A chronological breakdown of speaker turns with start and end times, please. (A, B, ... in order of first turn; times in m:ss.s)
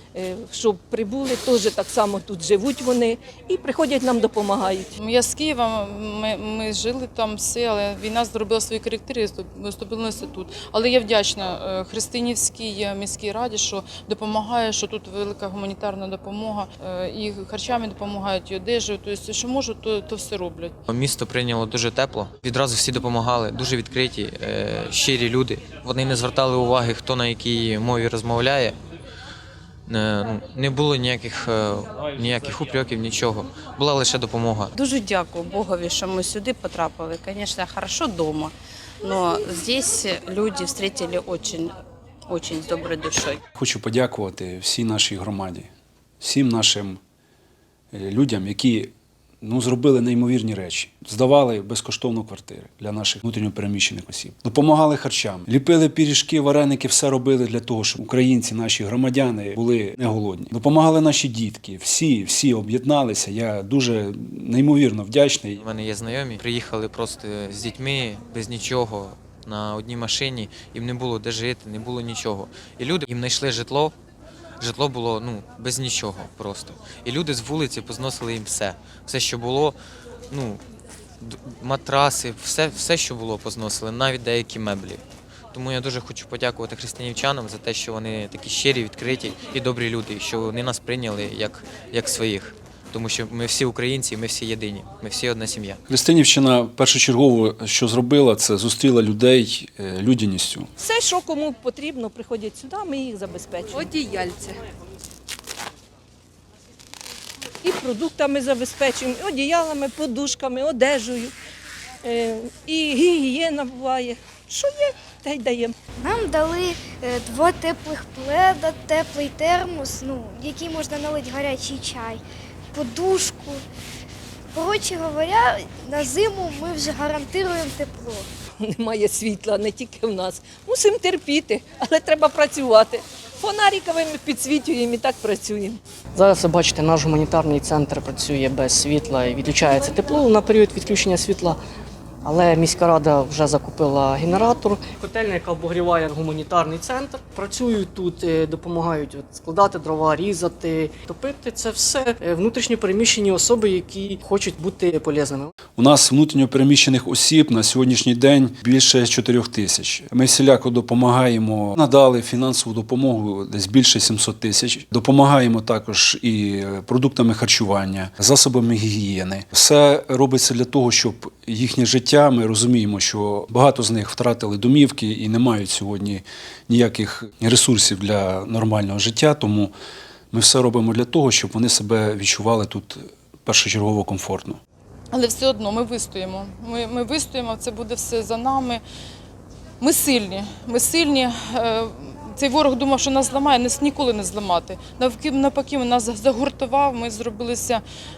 0:00.2-0:04.9 A
0:05.0-0:20.8 B
0:20.9-0:28.8 C
0:29.9-0:34.7 C
0:34.8-0:41.7 D
0:42.3-0:43.4 D
0:43.6-0:45.7 E
0:46.2-0:47.0 E
0:47.9-1:05.6 E
1:05.6-1:14.0 C
1:14.6-1:19.8 C
1:20.3-1:20.6 C
1:21.2-1:25.0 C
1:25.5-1:35.8 C
1:35.9-1:40.7 E
1:40.8-1:44.6 A
1:47.6-1:51.3 A
1:52.0-1:55.7 A
1:56.0-2:02.2 F
2:02.7-2:03.6 F
2:04.5-2:08.3 F
2:08.6-2:15.8 A
2:16.2-2:21.6 G
2:22.2-2:35.5 G
2:35.8-2:59.7 E
3:00.3-3:04.6 E
3:05.1-3:08.8 B
3:09.8-3:17.8 B